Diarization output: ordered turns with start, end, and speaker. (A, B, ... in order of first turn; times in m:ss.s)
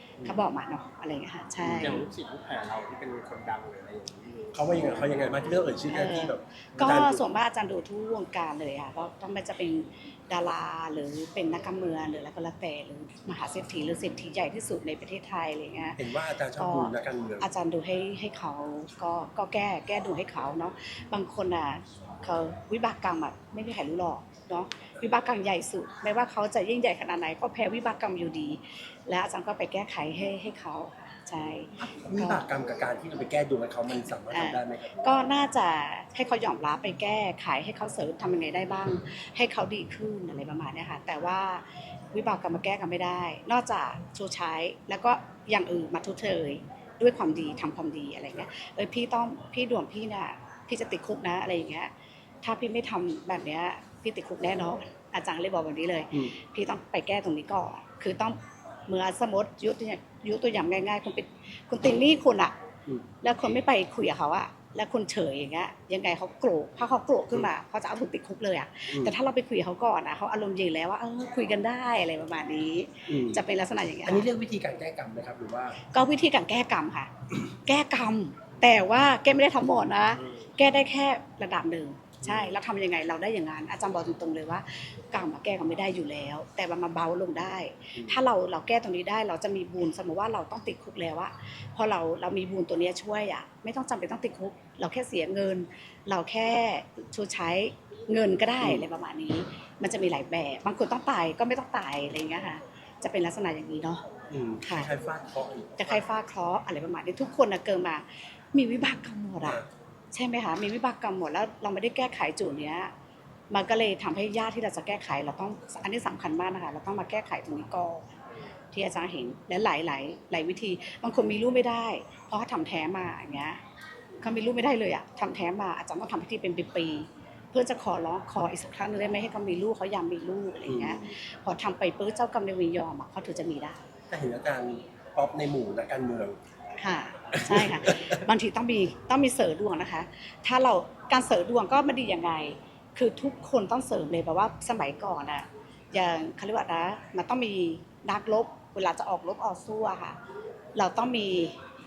0:00.2-0:02.0 A
0:01.6-0:02.0 B
0:01.8-0:04.6 C
0:04.5-0:07.2 B
0:05.9-0:16.0 A
0:16.0-0:17.5 B
0:16.6-0:32.4 A
0:31.8-0:34.9 B
0:34.3-0:51.9 A
0:52.4-1:02.5 A
1:03.2-1:14.3 A
1:08.9-1:09.2 B
1:13.1-1:13.4 B
1:14.0-1:15.8 B
1:15.8-1:44.0 A
1:20.2-1:20.5 C
1:22.2-1:22.5 B
1:27.9-1:28.2 B
1:38.6-1:38.9 B
1:44.3-1:46.0 B
1:44.6-1:44.9 A
1:45.8-1:49.6 A
1:50.1-1:52.9 A
1:53.5-1:58.1 A
1:58.7-2:03.6 A
2:04.2-2:13.8 A
2:10.6-2:11.1 B
2:14.1-2:16.4 B
2:16.8-2:30.2 A
2:17.3-2:18.2 B
2:30.7-2:31.6 A